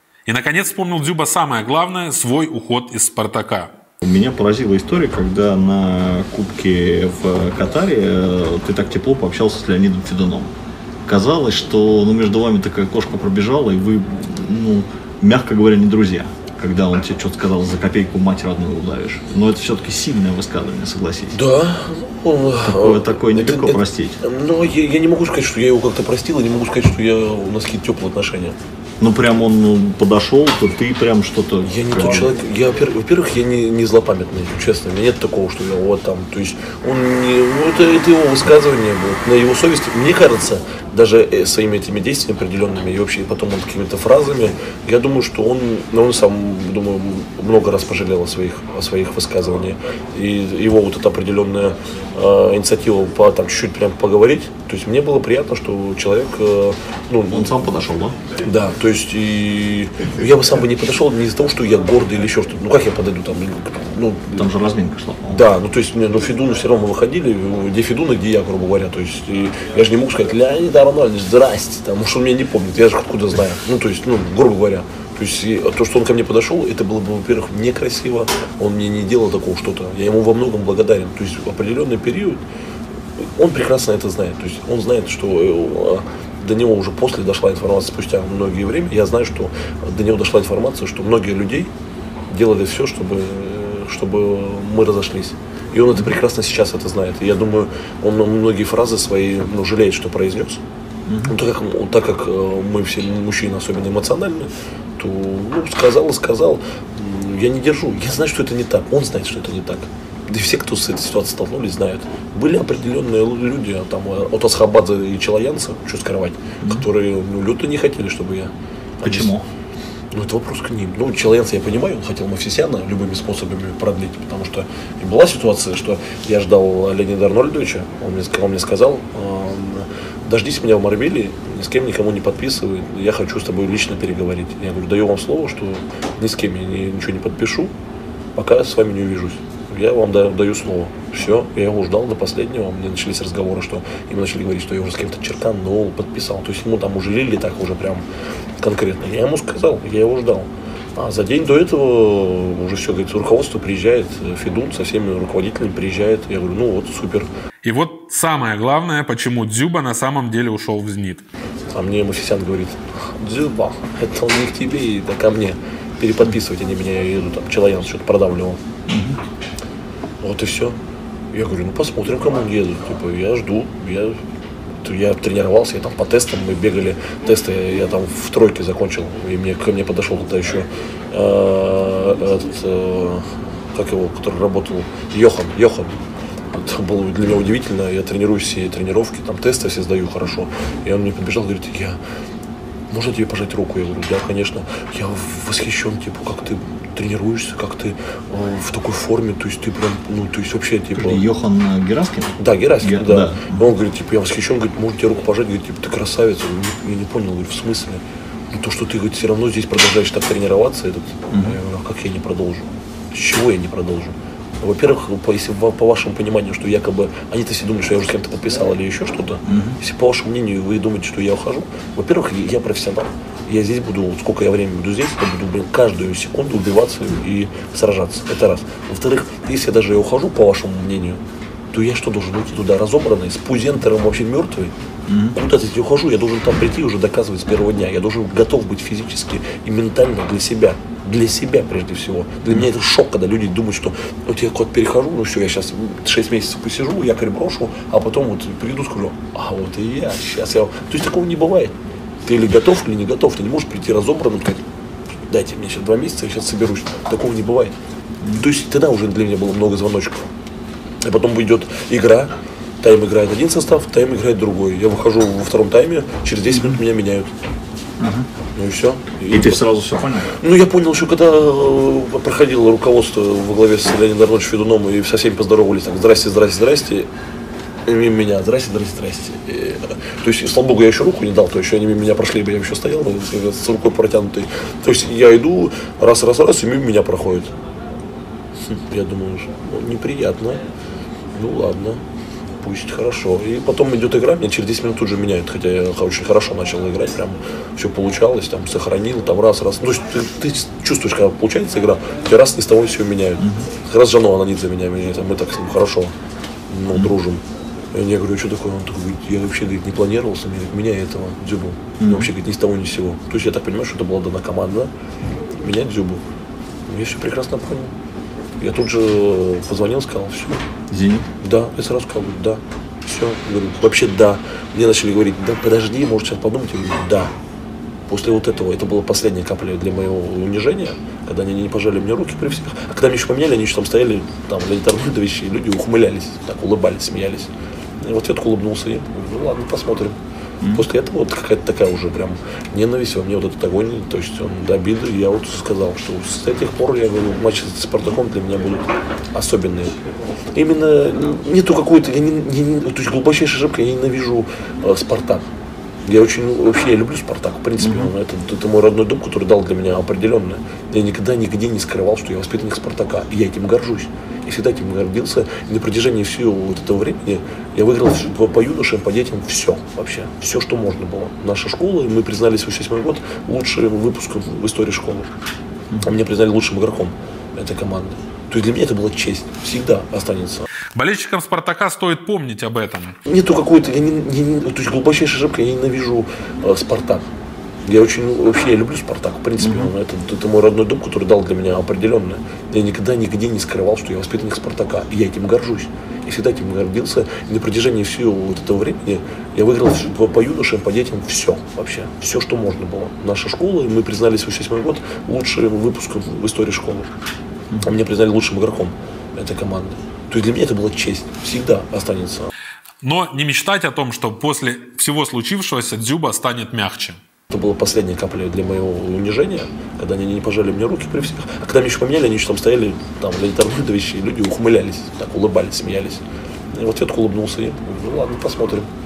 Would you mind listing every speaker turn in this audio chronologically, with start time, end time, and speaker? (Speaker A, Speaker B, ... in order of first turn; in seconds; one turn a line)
Speaker A: 0.3-3.7
Speaker B: 4.0-10.5
Speaker B: 11.1-21.4
Speaker C: 21.3-28.6
Speaker B: 22.6-24.2
Speaker B: 29.0-32.4
Speaker C: 31.6-57.6
Speaker B: 57.3-58.2
Speaker C: 58.4-64.5
Speaker B: 64.3-65.5
Speaker C: 65.3-82.4
Speaker C: 83.3-91.7
Speaker C: 92.3-100.6
Speaker B: 101.1-101.3
Speaker C: 101.3-119.3
Speaker B: 119.0-119.5
Speaker C: 120.1-137.7
Speaker C: 138.3-148.1
Speaker C: 148.6-157.3
Speaker A: 157.6-161.2
Speaker C: 161.7-168.6
Speaker B: 168.9-169.2
Speaker C: 170.2-170.8
Speaker C: 171.3-174.2
Speaker C: 174.8-186.0
Speaker C: 186.5-192.0
Speaker C: 192.9-201.2
Speaker B: 200.9-203.7
Speaker C: 202.4-234.7
Speaker B: 211.3-211.6
Speaker B: 219.4-219.8
Speaker B: 235.1-235.3
Speaker C: 235.3-254.6
Speaker C: 255.3-257.8
Speaker B: 258.2-258.5
Speaker C: 258.3-260.3
Speaker C: 261.0-267.3
Speaker B: 266.5-266.8
Speaker B: 268.0-268.3
Speaker C: 268.5-269.6
Speaker B: 269.3-270.3
Speaker C: 270.3-277.1
Speaker C: 277.9-287.5
Speaker C: 288.7-290.6
Speaker C: 291.3-292.0
Speaker C: 292.6-306.1
Speaker B: 303.4-303.7
Speaker C: 306.7-307.4
Speaker C: 307.9-314.9
Speaker B: 312.0-312.3
Speaker C: 315.5-316.2
Speaker C: 316.9-317.9
Speaker C: 318.6-320.6
Speaker B: 320.9-321.3
Speaker C: 321.4-327.3
Speaker C: 328.1-340.2
Speaker C: 340.7-349.9
Speaker C: 350.5-355.5
Speaker C: 356.0-375.3
Speaker B: 357.8-358.1
Speaker C: 376.0-380.6
Speaker A: 380.9-383.1
Speaker C: 383.2-387.2
Speaker C: 387.8-407.1
Speaker B: 389.6-389.9
Speaker C: 407.8-412.5
Speaker A: 413.0-417.2
Speaker C: 417.5-428.9